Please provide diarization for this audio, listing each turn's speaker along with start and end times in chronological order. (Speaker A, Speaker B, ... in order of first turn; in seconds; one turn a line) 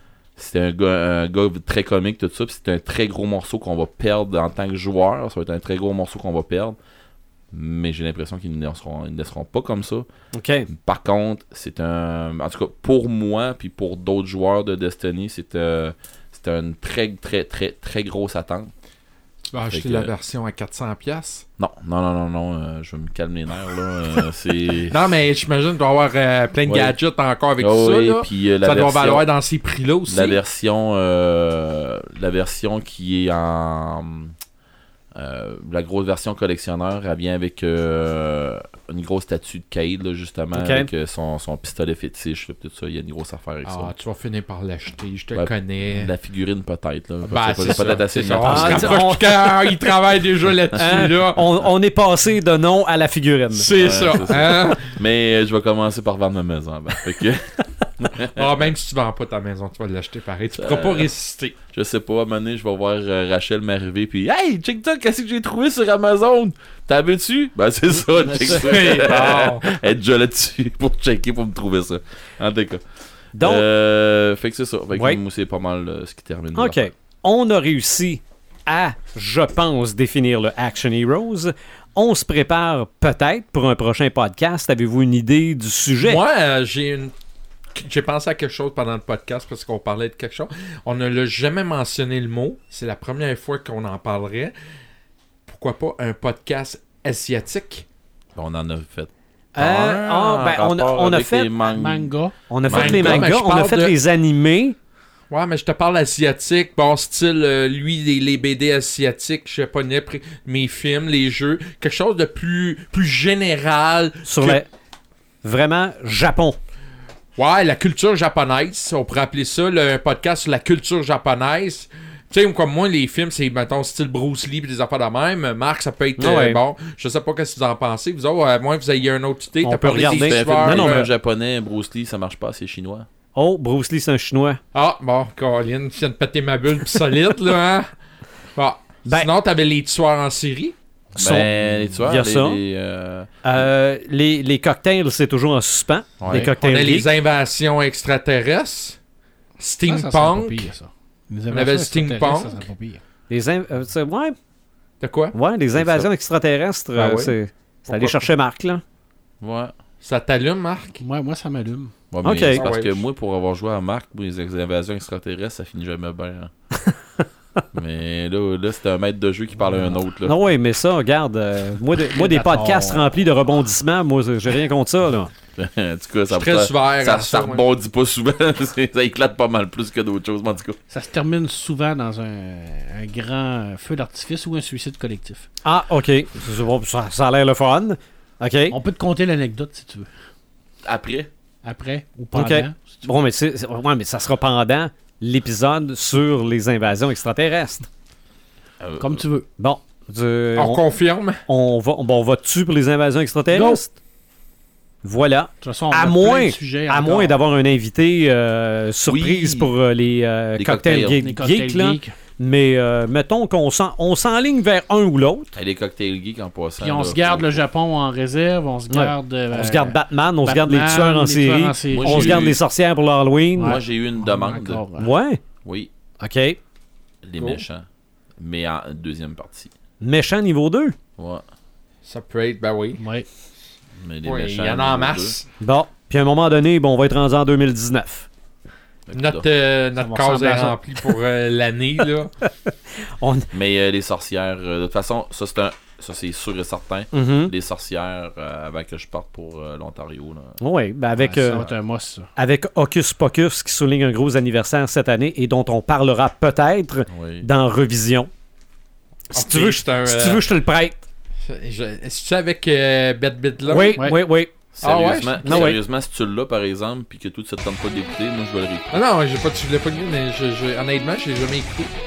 Speaker A: 0.4-6.8
Speaker A: 7.5-10.1
Speaker B: 10.3-10.7
Speaker A: 10.7-18.7
Speaker C: 19.5-21.4
Speaker A: 19.7-20.1
Speaker A: 21.6-25.1
Speaker C: 24.9-30.4
Speaker A: 26.6-26.9
Speaker A: 27.6-29.3
Speaker A: 30.1-34.3
Speaker A: 35.1-43.9
Speaker B: 40.5-40.9
Speaker C: 43.6-46.1
Speaker A: 45.3-49.2
Speaker C: 47.2-51.5
Speaker B: 48.4-49.2
Speaker B: 50.8-53.7
Speaker C: 53.5-54.8
Speaker A: 53.7-58.5
Speaker C: 58.3-61.5
Speaker A: 60.6-61.1
Speaker A: 61.7-72.8
Speaker C: 68.5-69.7
Speaker B: 73.3-73.7
Speaker A: 73.4-76.9
Speaker B: 74.9-75.2
Speaker B: 76.5-86.2
Speaker C: 86.0-87.1
Speaker C: 87.7-94.5
Speaker C: 95.5-97.8
Speaker A: 98.3-102.1
Speaker B: 99.5-101.5
Speaker D: 101.7-102.3
Speaker B: 102.5-104.8
Speaker A: 102.7-103.3
Speaker C: 102.7-103.9
Speaker C: 105.3-114.6
Speaker B: 114.2-114.7
Speaker B: 115.4-116.6
Speaker C: 117.4-131.1
Speaker B: 126.2-126.6
Speaker B: 129.6-131.1
Speaker A: 130.0-133.1
Speaker B: 133.3-134.6
Speaker C: 134.7-137.9
Speaker C: 138.6-140.7
Speaker B: 141.2-141.5
Speaker A: 141.2-143.3
Speaker B: 142.0-142.6
Speaker B: 143.4-147.1
Speaker A: 146.2-146.5
Speaker C: 146.6-149.0
Speaker C: 149.6-150.7
Speaker D: 149.9-153.0
Speaker C: 151.5-152.7
Speaker B: 153.3-154.3
Speaker C: 155.0-155.3
Speaker B: 155.3-158.8
Speaker A: 155.7-156.1
Speaker C: 156.9-157.3
Speaker C: 157.8-158.3
Speaker A: 159.4-159.7
Speaker C: 160.0-161.0
Speaker D: 161.0-161.9
Speaker A: 162.1-166.5
Speaker B: 162.2-162.6
Speaker C: 162.5-163.0
Speaker A: 167.7-170.3
Speaker B: 170.2-175.3
Speaker D: 172.1-173.1
Speaker A: 175.6-180.8
Speaker C: 176.3-177.7
Speaker D: 180.9-185.5
Speaker B: 185.6-188.8
Speaker D: 188.7-190.1
Speaker A: 190.8-191.3
Speaker D: 191.6-192.8
Speaker B: 192.3-197.9
Speaker A: 198.8-199.2
Speaker D: 199.0-199.5
Speaker B: 199.6-200.8
Speaker C: 200.6-201.4
Speaker B: 201.5-203.9
Speaker D: 203.5-203.8
Speaker B: 205.0-215.6
Speaker D: 205.6-207.3
Speaker A: 209.1-209.7
Speaker A: 210.6-211.2
Speaker D: 211.2-212.1
Speaker A: 215.6-217.6
Speaker D: 216.8-222.5
Speaker B: 218.9-223.8
Speaker A: 221.9-222.6
Speaker D: 223.6-225.1
Speaker A: 223.6-224.8
Speaker B: 225.0-225.4
Speaker A: 225.6-225.9
Speaker B: 226.2-226.6
Speaker A: 227.2-227.8
Speaker A: 228.4-229.7
Speaker B: 230.0-231.0
Speaker A: 231.2-231.4
Speaker C: 232.0-233.0
Speaker D: 233.0-233.3
Speaker A: 234.0-235.4
Speaker C: 234.2-235.4
Speaker B: 235.6-238.3
Speaker A: 239.1-239.5
Speaker C: 239.1-242.3
Speaker B: 240.0-240.8
Speaker D: 240.1-240.8
Speaker B: 242.4-243.5
Speaker A: 243.5-250.6
Speaker B: 247.1-247.5
Speaker B: 250.6-251.6
Speaker D: 251.2-252.3
Speaker B: 252.3-258.3
Speaker A: 257.1-257.5
Speaker C: 259.3-260.4
Speaker B: 259.3-261.0
Speaker C: 261.5-264.0
Speaker B: 263.7-264.5
Speaker A: 264.7-269.0
Speaker C: 264.8-265.7
Speaker B: 265.4-265.8
Speaker C: 268.9-271.9